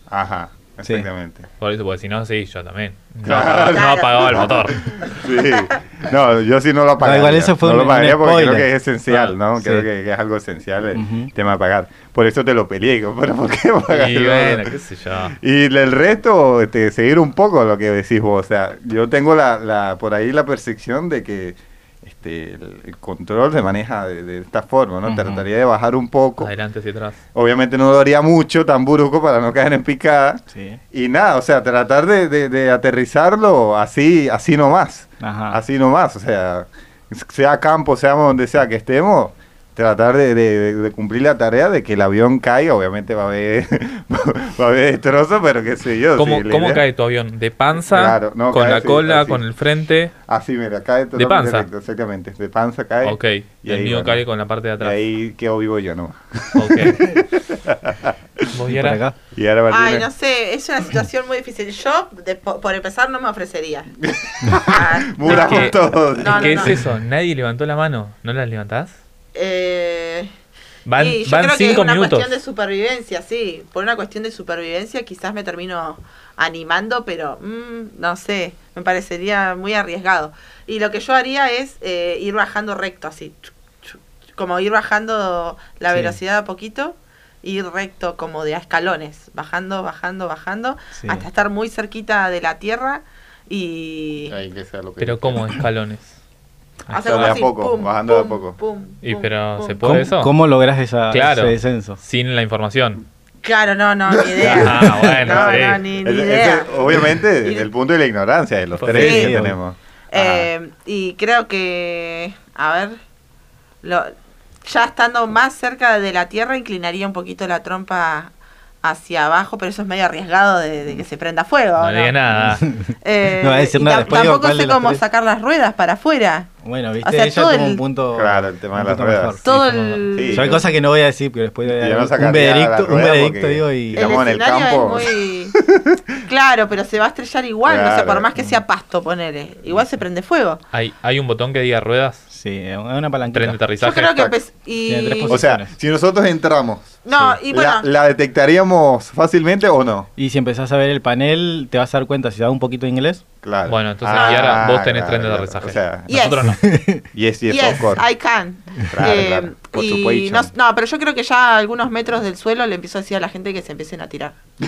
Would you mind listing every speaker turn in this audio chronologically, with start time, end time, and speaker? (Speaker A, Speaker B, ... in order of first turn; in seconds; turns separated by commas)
Speaker A: 0.1-1.5, Speaker B: 1.6-4.9, Speaker A: 3.2-14.7, Speaker C: 3.6-4.5, Speaker D: 7.0-8.7, Speaker B: 9.1-9.4, Speaker D: 9.6-9.9, Speaker D: 10.9-11.3, Speaker B: 13.9-15.4, Speaker A: 15.4-26.5, Speaker D: 25.1-25.4, Speaker B: 26.4-27.2, Speaker A: 27.3-30.4, Speaker D: 30.5-30.8, Speaker A: 30.9-46.8, Speaker D: 35.2-35.6, Speaker B: 46.2-50.1, Speaker A: 47.8-49.4, Speaker A: 50.3-54.2, Speaker B: 51.1-51.7, Speaker B: 53.0-55.0, Speaker A: 54.8-58.4, Speaker B: 56.5-57.1, Speaker B: 58.5-59.0, Speaker D: 58.7-59.1, Speaker A: 59.4-60.1, Speaker C: 59.7-63.9, Speaker A: 64.0-66.7, Speaker C: 64.6-66.7, Speaker B: 65.3-68.9, Speaker C: 69.3-70.3, Speaker B: 70.9-72.3, Speaker C: 71.0-94.3, Speaker D: 85.9-86.2, Speaker D: 90.9-91.2, Speaker A: 94.3-95.5, Speaker B: 95.0-96.2, Speaker B: 96.9-97.4, Speaker C: 96.9-99.8, Speaker A: 97.0-98.6, Speaker B: 99.0-100.3, Speaker D: 99.8-102.0, Speaker B: 101.1-103.0, Speaker C: 103.4-107.7, Speaker A: 104.2-110.5, Speaker B: 104.4-105.8, Speaker B: 108.8-109.2, Speaker D: 108.9-109.6, Speaker C: 109.0-109.3, Speaker C: 110.1-113.0, Speaker C: 113.8-122.4, Speaker B: 121.8-122.7, Speaker D: 122.5-125.0, Speaker C: 123.0-126.5, Speaker D: 126.6-134.1, Speaker C: 127.0-127.8, Speaker A: 128.1-129.4, Speaker C: 129.4-130.7, Speaker A: 130.1-130.6, Speaker A: 131.7-136.2, Speaker C: 133.9-135.5, Speaker C: 136.2-140.6, Speaker A: 137.6-138.3, Speaker B: 140.7-142.2, Speaker D: 142.3-143.6, Speaker B: 143.3-144.3, Speaker C: 143.8-145.4, Speaker D: 144.9-145.7, Speaker A: 145.3-150.1, Speaker C: 147.1-147.9, Speaker D: 150.2-153.2, Speaker A: 153.4-156.1, Speaker B: 153.7-156.6, Speaker C: 154.1-154.6, Speaker C: 156.1-156.5, Speaker D: 156.6-157.0, Speaker A: 157.1-158.0, Speaker C: 157.5-164.4, Speaker A: 158.9-160.5